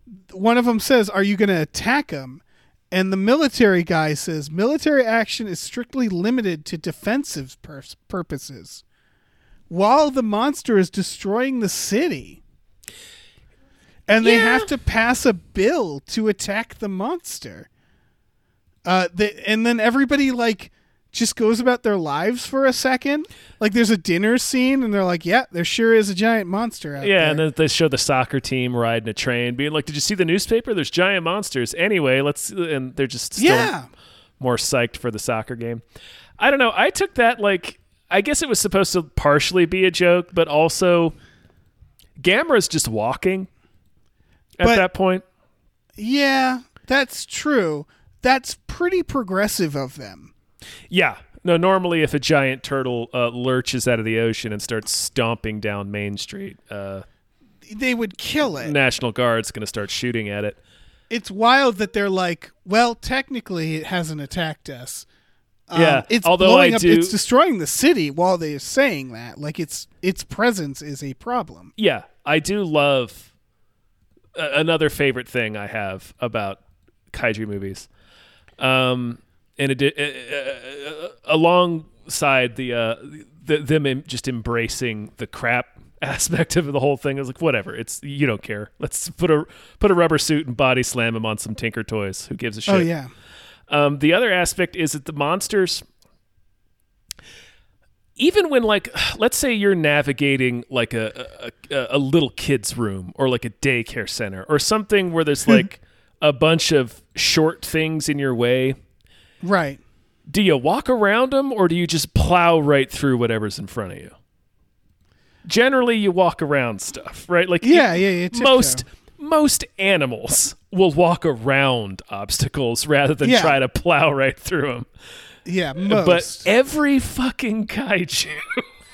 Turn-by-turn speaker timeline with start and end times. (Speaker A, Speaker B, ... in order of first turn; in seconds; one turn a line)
Speaker A: 0.3-8.8
Speaker A: 9.7-12.4
Speaker A: 14.1-17.7
Speaker B: 14.2-14.7
Speaker A: 18.8-27.4
Speaker B: 27.0-33.7
Speaker A: 33.4-33.9
Speaker B: 34.4-35.8
Speaker B: 36.4-41.1
Speaker B: 42.2-43.5
Speaker B: 44.6-45.2
Speaker A: 46.0-50.3
Speaker B: 50.9-57.0
Speaker A: 57.6-58.7
Speaker B: 58.6-60.6
Speaker A: 61.1-65.0
Speaker A: 65.7-71.7
Speaker B: 65.7-67.2
Speaker B: 71.8-73.3
Speaker B: 74.3-76.6
Speaker B: 77.1-77.9
Speaker B: 78.6-92.9
Speaker A: 92.7-93.1
Speaker B: 93.7-95.8
Speaker B: 98.2-108.8
Speaker A: 109.4-109.8
Speaker B: 110.3-114.1
Speaker B: 115.4-124.9
Speaker A: 117.6-118.8
Speaker A: 123.2-123.6
Speaker A: 125.4-126.5
Speaker B: 125.8-128.7